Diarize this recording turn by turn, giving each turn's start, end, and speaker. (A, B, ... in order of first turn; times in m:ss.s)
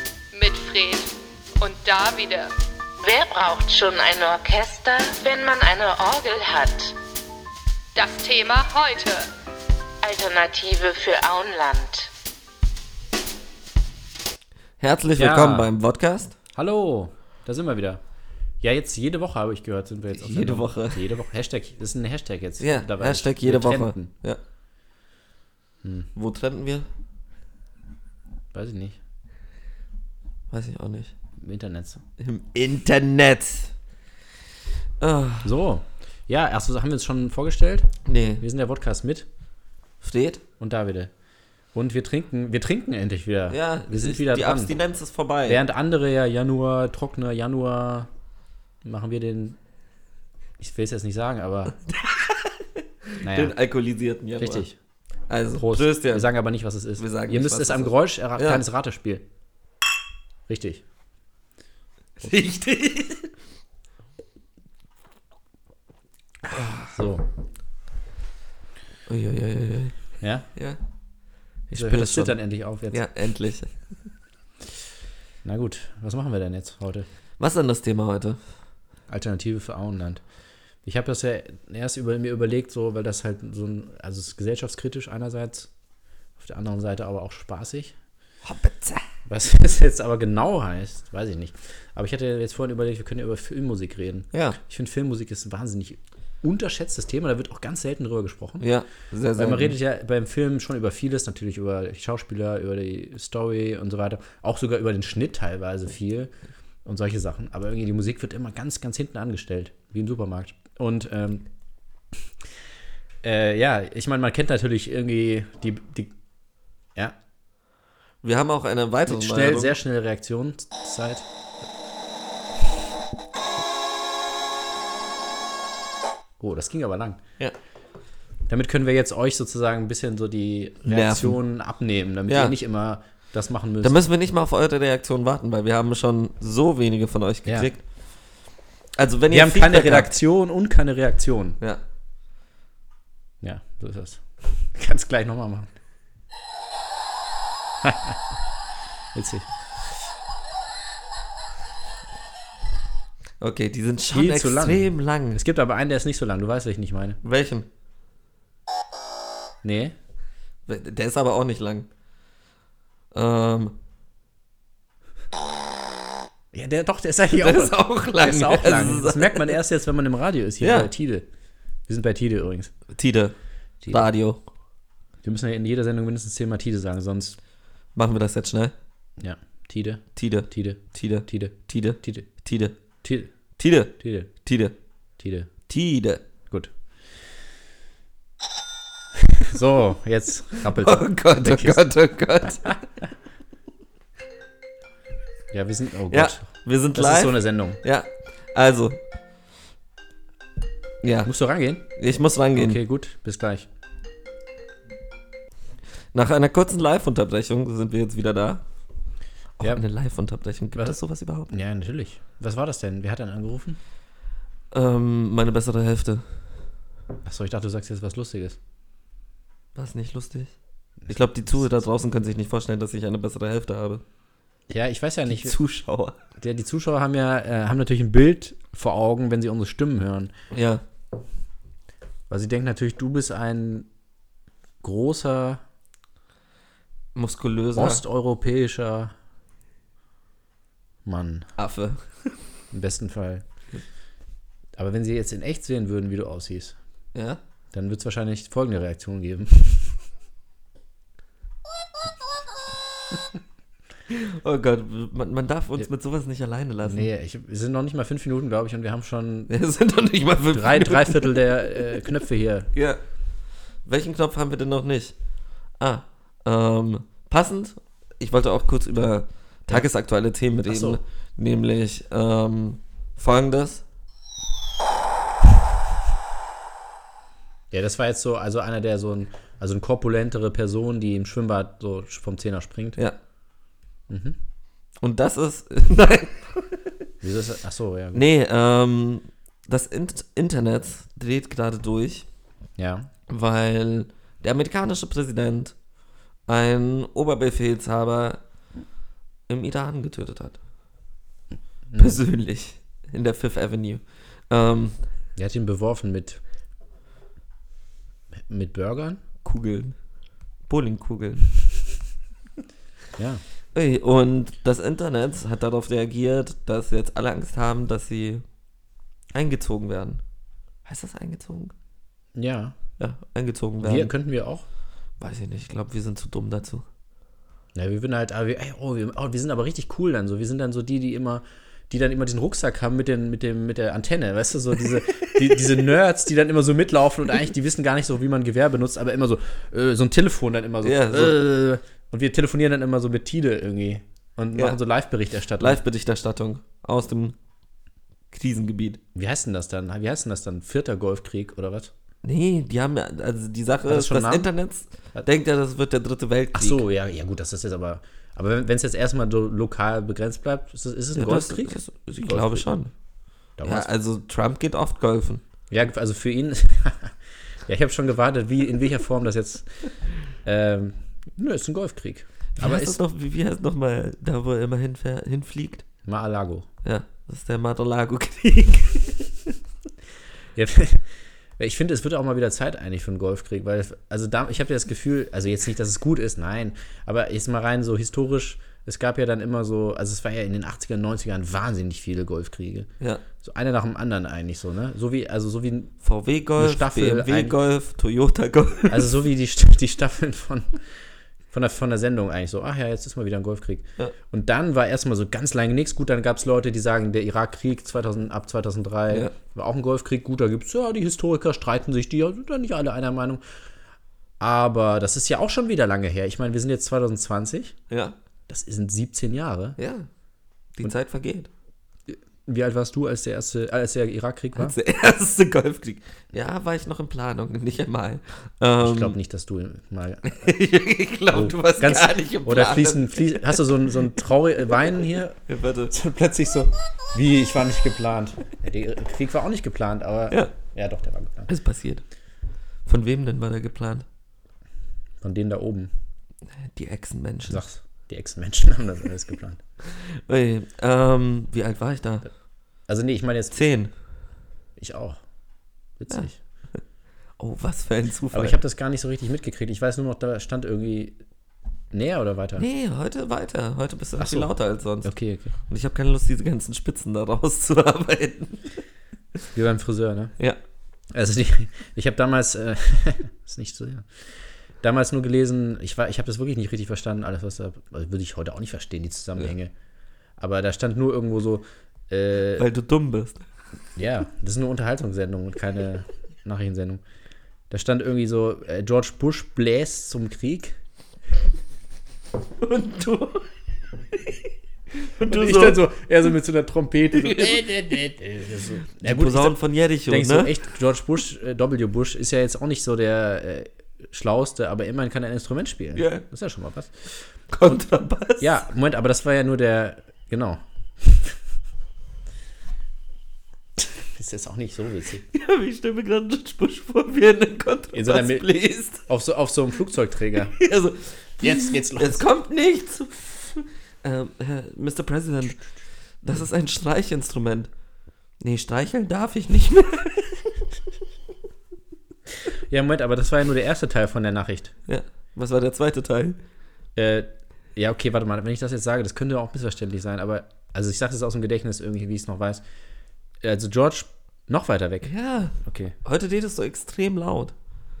0:00.3-0:02.5 A
0:03.0-0:06.9 B
0:07.9-0:09.3 A
0:10.0-0:12.1 B
0:14.8-0:16.3 C
0:15.2-0:15.7 D
0:16.5-0:18.0 D
0:18.6-0:24.1 D
0:20.1-0:21.0 C
0:22.6-0:24.4 C
0:25.8-0:26.1 D
0:26.1-0:26.8 C
0:28.5-0:29.0 D
0:30.5-0:31.1 C
0:31.4-0:32.0 D
0:32.2-0:33.7 C
0:35.0-0:35.5 C
0:35.4-0:39.3 D
0:38.0-0:38.4 C
0:40.0-0:40.4 C
0:40.6-0:41.1 D
0:41.7-0:44.8 D
0:43.5-0:45.6 C
0:45.5-0:48.1 D
0:48.8-0:49.6 D
0:50.6-0:51.7 D
0:51.9-0:54.6 C
0:53.2-0:53.6 D
0:54.4-0:54.8 D
0:55.3-0:56.3 C
0:55.6-0:59.2 D
0:57.0-0:58.6 C
1:00.5-1:00.8 D
1:02.2-1:03.3 C
1:06.5-1:07.0 C
1:06.9-1:07.2 D
1:09.1-1:10.0 C
1:10.2-1:10.4 D
1:10.5-1:10.8 C
1:11.7-1:12.4 C
1:11.7-1:13.0 D
1:12.9-1:13.7 C
1:15.4-1:17.1 D
1:17.4-1:18.4 C
1:19.1-1:20.2 D
1:20.8-1:25.7 D
1:26.4-1:27.9 D
1:28.4-1:29.0 C
1:29.3-1:38.6 D
1:34.3-1:34.6 C
1:38.6-1:39.8 C
1:39.4-1:46.3 D
1:46.8-1:51.5 D
1:53.2-1:56.1 D
1:58.2-1:59.8 C
1:59.1-2:01.2 D
2:06.4-2:07.2 D
2:08.5-2:14.0 D
2:10.8-2:11.4 C
2:12.3-2:12.5 C
2:13.8-2:17.8 C
2:19.0-2:20.1 C
2:19.3-2:21.6 D
2:23.4-2:25.7 D
2:27.8-2:28.2 D
2:29.1-2:29.5 D
2:33.4-2:35.4 C
2:34.1-2:37.2 D
2:37.2-2:37.7 C
2:39.6-2:39.9 D
2:40.7-2:41.9 C
2:43.1-2:43.7 C
2:46.5-2:51.2 D
2:47.4-2:49.5 C
2:50.6-2:50.9 C
2:51.9-2:52.7 D
2:52.9-2:53.3 C
2:53.9-2:54.4 C
2:55.2-2:57.4 D
2:57.9-2:58.7 C
2:59.2-3:02.3 D
3:00.2-3:02.7 C
3:03.0-3:03.3 D
3:03.6-3:04.7 C
3:04.0-3:04.3 D
3:05.2-3:05.5 D
3:05.7-3:06.2 C
3:09.1-3:11.8 D
3:10.7-3:12.8 C
3:15.5-3:17.8 D
3:16.1-3:19.0 C
3:21.0-3:21.3 C
3:21.2-3:21.9 D
3:22.0-3:22.8 C
3:22.5-3:23.7 D
3:26.1-3:28.6 C
3:29.6-3:31.5 C
3:31.5-3:33.8 D
3:34.7-3:36.2 C
3:37.2-3:38.6 D
3:39.7-3:40.5 C
3:41.0-3:41.7 D
3:41.1-3:44.0 C
3:44.7-3:45.6 D
3:45.2-3:46.2 C
3:46.4-3:50.3 D
3:50.5-3:50.8 C
3:52.3-3:53.9 D
3:54.8-3:55.6 D
3:57.1-3:58.0 C
3:57.7-3:59.1 D
4:01.0-4:01.5 D
4:01.6-4:02.3 C
4:02.7-4:03.4 D
4:04.8-4:06.8 D
4:07.1-4:07.4 C
4:07.7-4:10.0 D
4:14.1-4:17.1 C
4:16.8-4:19.5 D
4:19.5-4:21.5 C
4:20.5-4:22.7 D
4:22.7-4:23.0 C
4:23.8-4:25.1 C
4:25.8-4:33.8 C
4:30.6-4:31.0 D
4:37.7-4:43.0 D
4:44.1-4:44.4 D
4:45.0-4:46.8 C
4:47.2-4:48.2 D
4:48.1-4:52.2 C
4:52.8-4:53.1 D
4:53.3-4:55.8 C
4:56.5-4:58.4 C
4:59.5-5:00.6 C
5:01.9-5:02.2 D
5:02.0-5:05.0 C
5:05.4-5:06.4 D
5:08.3-5:09.2 D
5:09.4-5:09.9 C
5:10.7-5:11.6 C
5:13.2-5:13.4 D
5:13.7-5:18.4 C
5:19.3-5:20.2 C
5:20.8-5:21.7 C
5:22.3-5:22.7 D
5:23.0-5:24.1 C
5:23.8-5:24.6 D
5:25.2-5:26.8 C
5:27.7-5:45.8 D
5:40.8-5:41.4 C
5:45.6-5:47.3 C
5:48.3-5:49.0 C
5:49.1-5:51.9 D
5:52.2-5:56.8 C
5:53.8-5:54.5 D
5:56.5-6:02.7 D
6:01.1-6:02.9 C
6:03.6-6:03.9 D
6:03.6-6:05.4 C
6:05.7-6:13.0 D
6:12.6-6:15.8 C
6:16.0-6:16.7 D
6:16.8-6:19.5 C
6:20.5-6:32.9 D
6:33.4-6:35.9 D
6:36.0-6:39.1 C
6:36.6-6:37.5 D
6:38.9-6:40.8 D
6:41.5-6:53.4 D
6:49.1-6:49.3 C
6:54.4-6:57.8 D
6:57.9-6:58.1 C
6:58.5-6:59.8 D
6:59.8-7:00.1 C
7:00.8-7:01.5 C
7:02.1-7:04.8 D
7:04.6-7:09.2 C
7:08.8-7:10.5 D
7:10.2-7:13.6 C
7:11.3-7:21.5 D
7:15.5-7:15.9 C
7:21.5-7:22.0 C
7:22.8-7:24.0 C
7:25.2-7:25.9 D
7:26.6-7:27.6 C
7:27.5-7:29.6 D
7:29.9-7:32.3 C
7:32.9-7:33.6 D
7:33.5-7:33.9 C
7:34.8-7:35.2 D
7:36.0-7:36.4 D
7:36.1-7:36.8 C
7:37.4-7:38.6 C
7:38.3-7:41.2 D
7:41.9-7:42.6 D
7:42.6-7:45.1 C
7:44.2-7:44.5 D
7:45.0-7:45.5 D
7:45.7-7:48.8 C
7:49.5-7:50.3 D
7:51.1-7:54.2 D
7:54.8-7:59.7 D
8:00.4-8:02.6 D
8:02.6-8:03.4 C
8:04.0-8:07.0 D
8:07.7-8:10.8 D
8:12.6-8:13.5 C
8:14.1-8:15.8 C
8:15.2-8:26.9 D
8:17.1-8:17.9 C
8:19.0-8:20.5 C
8:26.0-8:26.2 C
8:27.5-8:28.6 C
8:28.4-8:31.4 D
8:33.8-8:35.2 D
8:35.3-8:39.0 C
8:37.9-8:38.5 D
8:39.0-8:40.6 D
8:40.5-8:45.6 C
8:41.4-8:42.2 D
8:46.2-8:47.7 C
8:48.4-8:50.6 C
8:52.5-8:54.7 D
8:54.9-8:56.4 C
8:57.0-9:02.6 D
9:03.4-9:05.9 D
9:05.0-9:07.5 C